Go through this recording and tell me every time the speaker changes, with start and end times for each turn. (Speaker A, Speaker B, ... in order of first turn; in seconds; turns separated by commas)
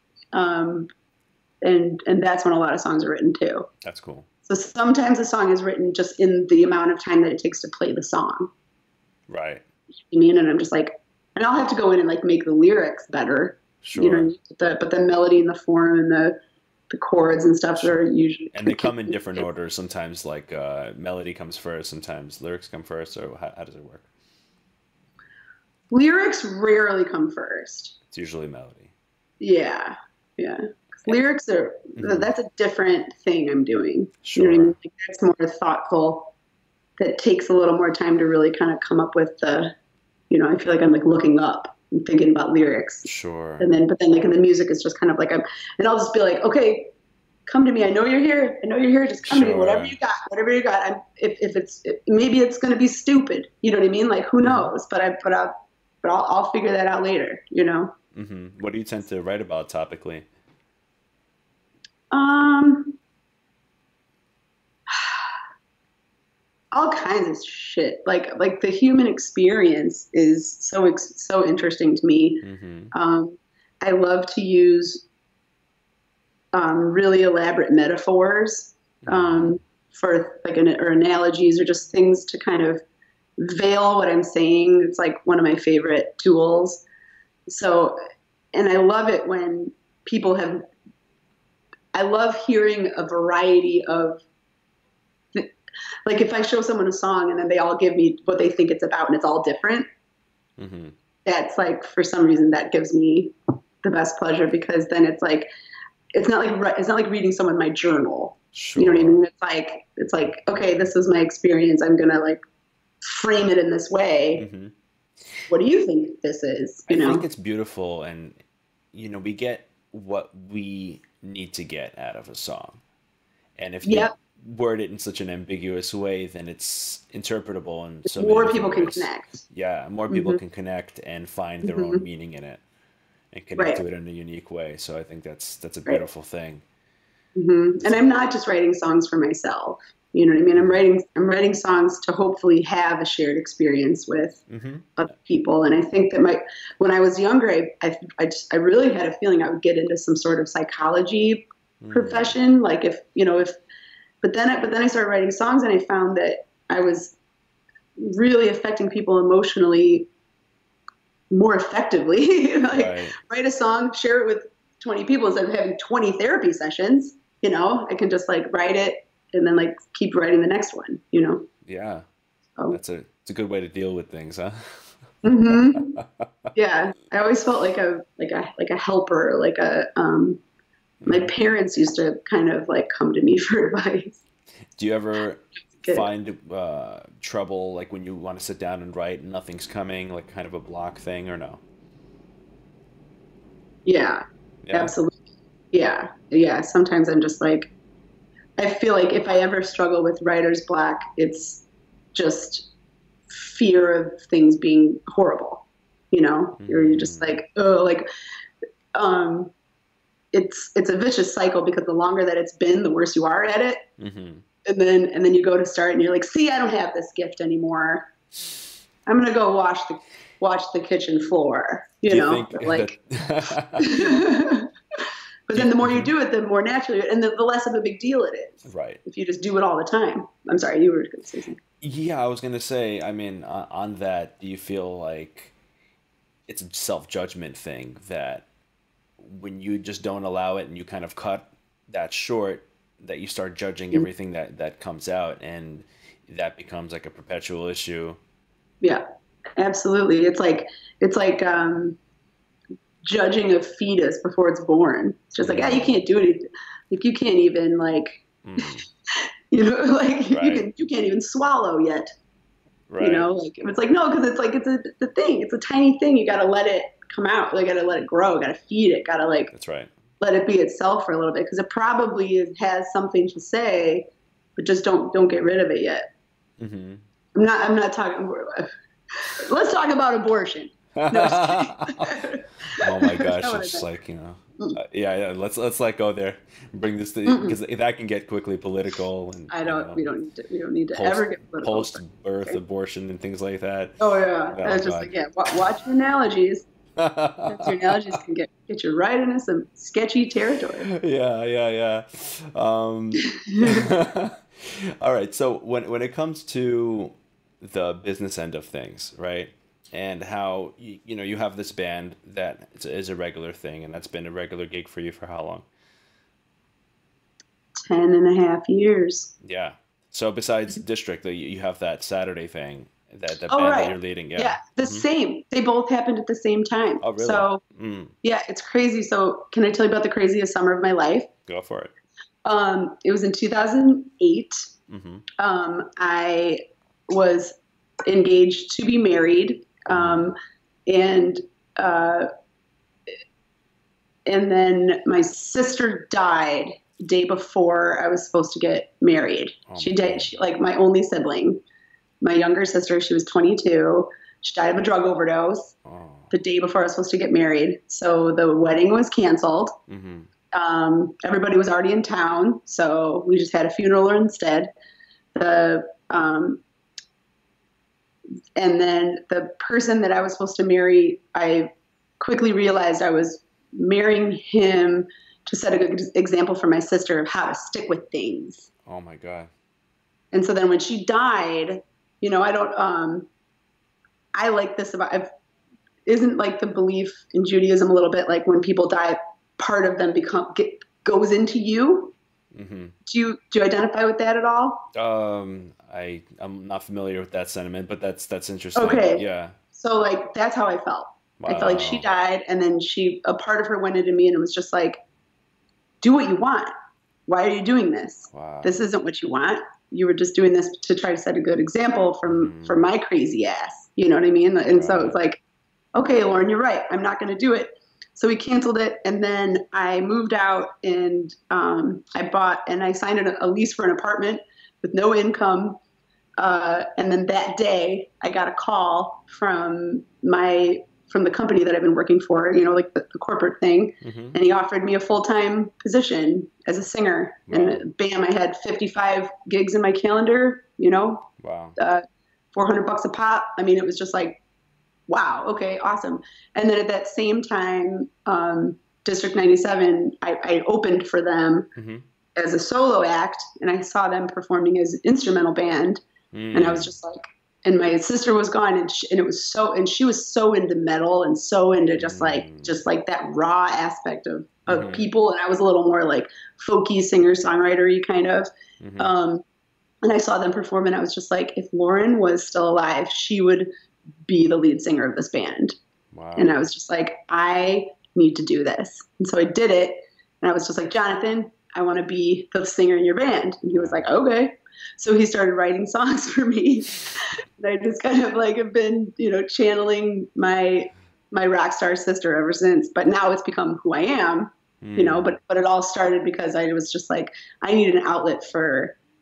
Speaker A: 0.3-0.9, Speaker A: 1.6-3.7, Speaker B: 3.8-4.3, Speaker A: 4.5-8.5, Speaker B: 9.3-9.6, Speaker A: 10.1-16.4, Speaker B: 13.8-14.3, Speaker A: 16.9-19.4, Speaker B: 17.8-24.1, Speaker A: 25.9-28.0, Speaker B: 28.1-28.9, Speaker A: 29.4-36.3, Speaker B: 31.9-32.3, Speaker B: 34.2-34.8, Speaker A: 37.0-39.7, Speaker A: 40.3-43.1, Speaker B: 43.0-43.7, Speaker A: 43.6-46.9, Speaker A: 47.5-57.9, Speaker B: 49.2-50.0, Speaker B: 54.4-54.7, Speaker B: 58.1-60.3, Speaker A: 62.1-63.0, Speaker A: 64.9-65.2, Speaker A: 66.7-75.0, Speaker B: 72.4-72.9, Speaker A: 76.5-82.8, Speaker B: 79.0-79.6, Speaker A: 83.4-86.8, Speaker A: 87.5-88.0, Speaker A: 88.5-90.7, Speaker A: 91.9-94.2, Speaker A: 96.0-99.9, Speaker B: 100.6-100.9, Speaker A: 101.2-105.5, Speaker A: 106.1-112.4, Speaker B: 108.5-109.2, Speaker A: 113.0-114.5, Speaker B: 114.4-114.7, Speaker A: 115.5-117.2, Speaker B: 116.9-118.3, Speaker B: 118.9-122.8, Speaker B: 123.6-132.6, Speaker A: 123.8-124.1, Speaker A: 128.1-129.4, Speaker A: 130.1-130.4, Speaker A: 131.6-132.0, Speaker B: 133.3-136.6, Speaker A: 137.3-144.4, Speaker B: 140.5-140.9, Speaker B: 144.5-144.9, Speaker A: 144.9-153.6, Speaker B: 151.8-152.4, Speaker A: 154.2-157.2, Speaker A: 158.0-160.1, Speaker A: 161.3-171.5, Speaker B: 162.7-163.2, Speaker B: 171.7-172.0, Speaker B: 172.7-176.2, Speaker A: 175.2-176.0, Speaker A: 176.5-180.4, Speaker B: 181.0-181.3, Speaker A: 181.1-184.2, Speaker B: 184.8-191.6, Speaker A: 185.8-186.1, Speaker A: 193.8-195.2, Speaker B: 194.6-194.9, Speaker A: 195.7-197.7, Speaker A: 198.6-202.7, Speaker A: 203.3-208.1, Speaker B: 206.6-207.4, Speaker A: 208.9-209.5, Speaker A: 210.3-213.9, Speaker B: 214.0-214.4, Speaker A: 214.6-218.1, Speaker A: 219.1-222.9, Speaker B: 222.1-224.3, Speaker A: 223.8-224.7, Speaker A: 225.5-231.6, Speaker B: 225.5-226.1, Speaker B: 228.7-229.0, Speaker B: 231.8-235.5, Speaker B: 236.5-238.4, Speaker B: 239.2-248.2, Speaker A: 249.6-252.0, Speaker A: 253.0-258.7, Speaker B: 255.4-255.9, Speaker B: 258.4-258.9, Speaker A: 259.5-262.1, Speaker B: 260.3-260.6, Speaker B: 262.9-263.2, Speaker A: 263.0-269.5, Speaker B: 269.5-269.9, Speaker A: 270.2-276.1, Speaker B: 276.6-277.0, Speaker A: 277.3-283.9, Speaker B: 280.9-282.2, Speaker B: 282.8-290.0, Speaker A: 287.2-287.6, Speaker A: 289.5-292.6, Speaker B: 290.9-294.0, Speaker A: 294.0-296.7, Speaker B: 294.5-295.6, Speaker B: 296.9-297.9, Speaker A: 297.5-300.9, Speaker B: 300.8-315.7, Speaker A: 303.2-303.9, Speaker A: 317.8-319.3, Speaker B: 319.4-325.0, Speaker A: 323.5-327.6, Speaker B: 327.0-328.1, Speaker A: 328.2-331.3, Speaker B: 331.5-331.9, Speaker A: 332.4-334.7, Speaker B: 334.9-335.2, Speaker A: 335.4-342.3, Speaker B: 339.9-340.3, Speaker A: 344.2-351.6, Speaker B: 349.7-350.3, Speaker A: 352.2-355.7, Speaker B: 355.8-356.3, Speaker A: 356.3-359.8, Speaker B: 359.9-360.3, Speaker A: 360.5-364.7, Speaker A: 365.3-366.6, Speaker A: 368.6-378.7, Speaker B: 378.9-379.5, Speaker A: 380.3-383.3, Speaker A: 384.3-385.3, Speaker A: 386.1-392.1, Speaker B: 392.5-392.9, Speaker A: 393.1-394.9, Speaker B: 394.9-399.6, Speaker A: 398.8-405.0, Speaker B: 401.4-402.1, Speaker A: 406.0-406.7, Speaker A: 407.3-415.4, Speaker B: 408.3-408.9, Speaker B: 412.3-412.9, Speaker B: 414.7-415.1, Speaker A: 415.9-425.8, Speaker A: 426.4-444.4, Speaker B: 434.0-434.4, Speaker B: 437.5-437.9, Speaker B: 441.4-441.8, Speaker A: 445.1-451.7, Speaker B: 451.8-452.0, Speaker A: 452.4-456.0, Speaker B: 456.3-456.9, Speaker A: 456.5-469.4, Speaker B: 462.0-462.7, Speaker B: 464.7-465.1, Speaker B: 468.8-469.1, Speaker A: 470.0-473.7, Speaker A: 474.3-475.8, Speaker B: 476.1-476.7, Speaker A: 476.4-499.0, Speaker B: 483.7-484.0, Speaker B: 494.8-495.4